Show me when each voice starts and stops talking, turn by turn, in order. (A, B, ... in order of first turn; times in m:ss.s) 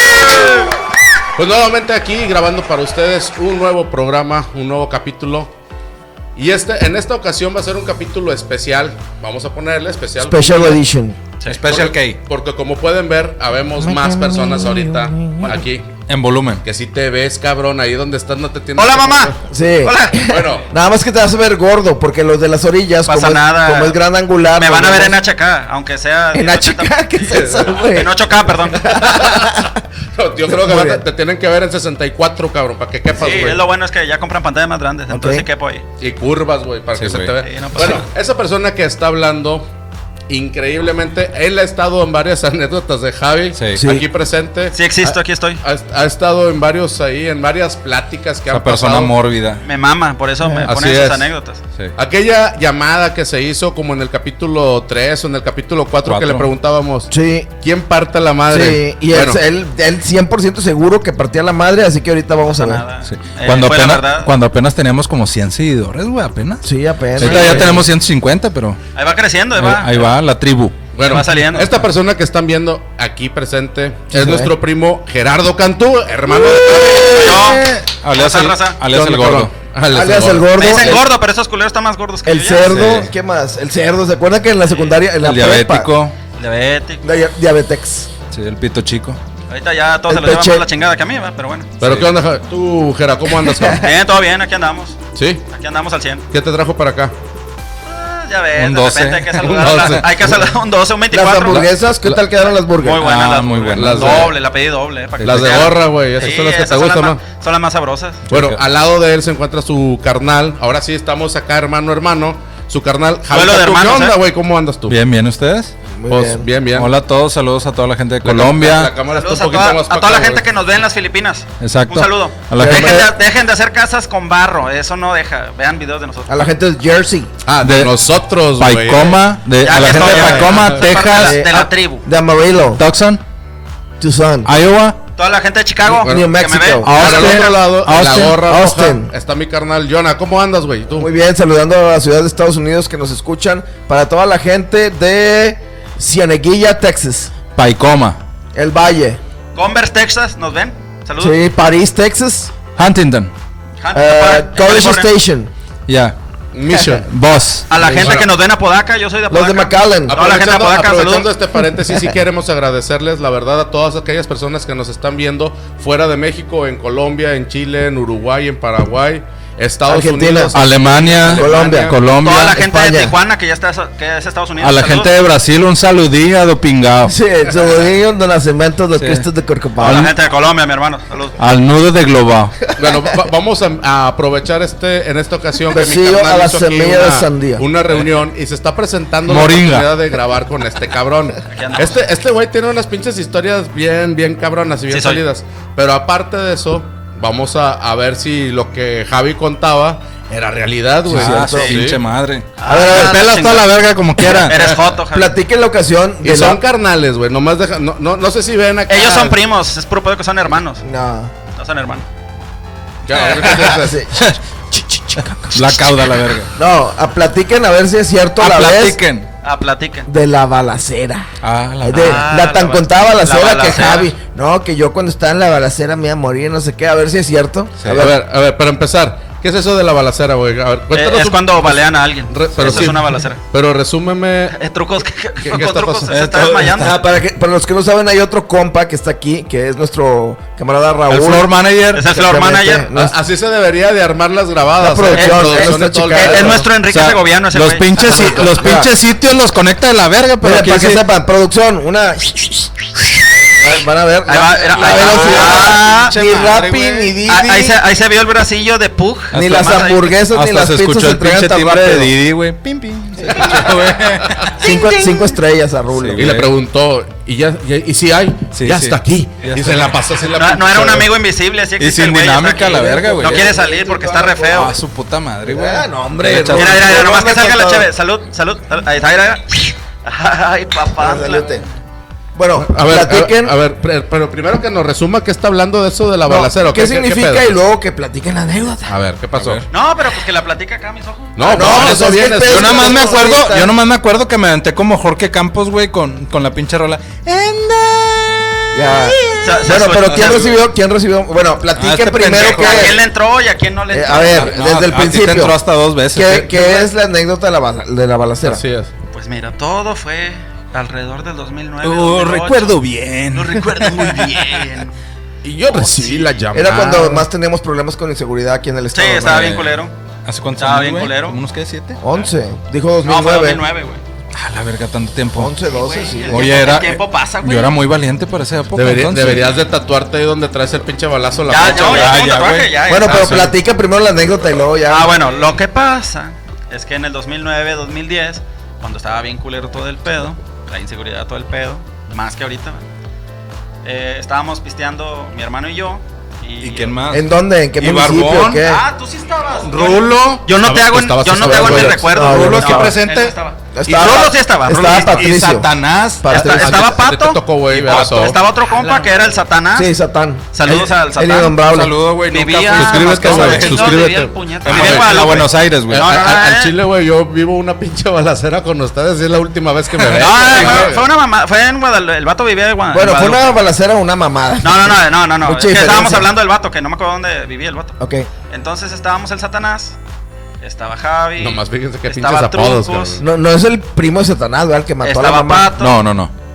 0:01.4-0:05.5 A
0:06.4-0:10.8 A
0:10.2-0:11.2 B
0:11.5-0:12.2 C
0:11.6-0:15.9 A
0:13.8-0:15.6 B
0:16.1-0:16.6 C
0:16.6-0:19.4 A
0:18.8-0:20.2 D
0:19.4-0:25.2 B
0:20.2-0:20.7 A
0:23.1-0:24.0 D
0:24.6-0:27.2 D
0:26.3-0:29.8 B
0:27.3-0:28.0 A
0:27.9-0:29.0 D
0:28.8-0:33.6 A
0:30.5-0:31.0 B
0:33.2-0:35.8 D
0:35.1-0:35.4 B
0:36.0-0:39.6 A
0:37.0-0:37.3 C
0:37.4-0:38.0 D
0:40.3-0:49.1 A
0:43.5-0:43.8 C
0:43.8-0:44.1 B
0:44.7-0:45.6 D
0:48.5-0:49.6 C
0:49.6-0:51.6 D
0:50.4-0:50.7 B
0:50.6-0:51.3 A
0:52.0-0:59.4 A
0:56.0-0:56.5 C
0:57.1-0:57.5 B
0:58.5-1:02.8 B
1:02.5-1:04.3 D
1:03.0-1:08.8 C
1:06.6-1:07.9 B
1:07.2-1:07.8 A
1:07.2-1:07.8 D
1:08.9-1:10.1 D
1:09.6-1:11.2 C
1:10.9-1:17.5 A
1:11.0-1:11.7 D
1:14.1-1:14.5 B
1:16.9-1:19.5 C
1:17.1-1:18.8 D
1:18.9-1:20.9 A
1:19.9-1:21.1 B
1:20.5-1:22.8 D
1:22.2-1:25.9 B
1:22.7-1:23.1 C
1:24.6-1:25.0 D
1:25.2-1:26.2 C
1:26.4-1:27.0 D
1:27.0-1:28.1 B
1:28.3-1:29.2 C
1:29.5-1:31.7 D
1:30.1-1:30.6 B
1:31.8-1:33.8 A
1:31.8-1:32.1 C
1:33.5-1:33.8 B
1:33.8-1:35.0 D
1:35.1-1:35.4 A
1:35.5-1:36.2 D
1:36.3-1:37.1 A
1:37.8-1:41.6 D
1:38.6-1:40.1 C
1:39.4-1:40.3 A
1:41.1-1:43.0 B
1:42.5-1:48.2 D
1:43.0-1:44.3 C
1:43.7-1:44.4 A
1:45.2-1:45.7 C
1:45.2-1:47.2 A
1:48.3-1:48.6 C
1:48.3-1:55.0 A
1:53.3-1:54.2 D
1:54.9-1:55.7 C
1:55.9-1:56.5 B
1:56.1-1:56.9 A
1:56.7-1:58.9 C
1:58.2-2:00.4 A
1:59.1-2:06.5 D
2:01.6-2:03.0 C
2:02.5-2:03.1 B
2:06.3-2:07.3 B
2:07.4-2:11.0 A
2:07.6-2:07.9 C
2:08.6-2:11.4 C
2:09.6-2:12.0 D
2:11.1-2:12.8 B
2:12.8-2:13.2 C
2:14.0-2:14.5 B
2:14.4-2:15.0 C
2:15.2-2:17.5 D
2:16.0-2:17.2 B
2:16.0-2:16.3 A
2:16.8-2:18.7 C
2:16.9-2:21.1 A
2:18.5-2:19.1 B
2:20.9-2:27.3 B
2:27.5-2:28.2 C
2:28.5-2:29.2 B
2:29.5-2:31.4 D
2:31.2-2:32.5 B
2:32.8-2:33.3 C
2:33.8-2:35.1 D
2:33.9-2:35.5 B
2:35.9-2:36.2 C
2:36.5-2:37.1 A
2:37.0-2:37.7 C
2:37.7-2:41.3 D
2:37.8-2:38.2 B
2:37.8-2:38.3 A
2:39.3-2:40.3 B
2:40.1-2:52.0 A
2:49.9-2:50.6 B
2:50.5-2:52.6 C
2:51.3-2:52.0 B
2:52.2-2:55.1 D
2:52.5-2:53.1 B
2:54.6-2:57.1 C
2:57.1-3:00.1 B
2:57.5-2:57.7 A
2:59.0-2:59.2 C
2:59.8-3:01.4 D
2:59.8-3:00.1 C
3:01.4-3:02.6 C
3:02.8-3:22.0 A
3:05.7-3:07.6 B
3:09.3-3:09.9 C
3:11.5-3:12.0 D
3:14.9-3:15.2 D
3:21.1-3:21.8 B
3:21.1-3:24.6 C
3:21.5-3:21.8 D
3:22.6-3:23.7 D
3:22.6-3:23.3 B
3:24.3-3:25.3 D
3:25.1-3:26.6 B
3:26.2-3:29.4 A
3:28.9-3:30.8 D
3:30.8-3:31.3 B
3:31.6-3:32.0 D
3:33.0-3:34.0 A
3:33.1-3:33.4 D
3:33.4-3:35.8 B
3:35.2-3:36.5 C
3:36.5-3:39.0 B
3:38.4-3:39.3 C
3:39.4-3:40.1 D
3:40.1-3:41.3 B
3:41.4-3:42.2 C
3:41.8-3:48.2 B
3:41.9-3:44.1 D
3:47.8-3:48.0 C
3:47.9-3:54.6 A
3:50.9-3:53.4 D
3:52.6-3:52.9 C
3:54.5-3:56.9 D
3:55.4-3:56.2 A
3:56.1-3:56.9 C
3:56.8-4:03.2 B
4:01.1-4:02.0 C
4:01.9-4:02.9 D
4:02.9-4:06.6 A
4:04.8-4:06.7 B
4:05.1-4:08.3 D
4:06.9-4:11.0 C
4:08.0-4:08.9 B
4:08.0-4:08.5 A
4:10.4-4:17.8 B
4:14.3-4:16.1 D
4:14.7-4:16.9 C
4:16.5-4:17.1 A
4:17.2-4:20.1 D
4:19.3-4:22.1 B
4:19.3-4:24.6 C
4:23.4-4:24.5 A
4:24.6-4:25.3 D
4:24.6-4:26.3 B
4:25.9-4:26.5 C
4:26.1-4:31.1 A
4:28.5-4:30.0 C
4:30.3-4:34.7 D
4:31.8-4:33.5 C
4:32.6-4:34.7 B
4:34.5-4:37.0 C
4:35.4-4:37.9 B
4:36.5-4:41.6 D
4:41.0-4:41.6 B
4:42.3-4:43.5 B
4:42.6-4:47.6 A
4:46.2-4:48.9 B
4:48.9-4:49.6 A
4:49.3-4:49.6 C
4:49.7-4:51.7 D
4:51.4-4:53.2 A
4:51.4-4:53.8 B
4:51.6-5:00.1 C
4:58.7-5:03.0 B
4:59.4-5:00.6 D
5:01.8-5:03.0 C
5:02.3-5:04.6 D
5:03.9-5:05.6 B
5:04.3-5:06.7 C
5:06.1-5:08.6 B
5:06.3-5:06.8 A
5:08.4-5:08.9 A
5:09.1-5:12.8 D
5:11.8-5:14.6 C
5:13.3-5:14.9 D
5:15.4-5:17.3 A
5:15.7-5:16.4 D
5:16.5-5:19.6 B
5:18.9-5:19.9 D
5:19.3-5:22.0 C
5:20.6-5:21.4 D
5:22.0-5:23.6 B
5:23.0-5:24.0 D
5:24.3-5:25.6 C
5:25.4-5:26.5 B
5:25.7-5:27.7 D
5:26.3-5:29.5 C
5:28.7-5:32.4 A
5:31.5-5:33.5 D
5:31.5-5:32.8 C
5:32.9-5:35.2 B
5:33.1-5:33.4 A
5:34.9-5:42.8 D
5:43.8-5:46.9 D
5:46.6-5:48.6 C
5:47.1-5:48.8 B
5:48.6-5:55.3 D
5:49.6-5:54.3 A
5:51.4-5:53.0 B
5:52.2-5:52.8 C
5:53.7-5:56.9 B
5:54.8-5:56.5 C
5:56.3-5:59.9 D
5:56.4-5:58.4 A
5:57.8-5:58.4 C
5:59.7-6:02.0 B
6:00.5-6:01.6 D
6:01.6-6:06.1 C
6:02.3-6:06.7 D
6:02.7-6:11.0 A
6:10.1-6:13.6 D
6:10.1-6:10.8 C
6:12.9-6:16.3 B
6:14.6-6:18.0 D
6:18.0-6:18.3 B
6:18.5-6:20.0 D
6:20.6-6:23.2 D
6:21.4-6:23.2 A
6:23.2-6:25.7 B
6:25.0-6:26.0 D
6:25.8-6:26.3 C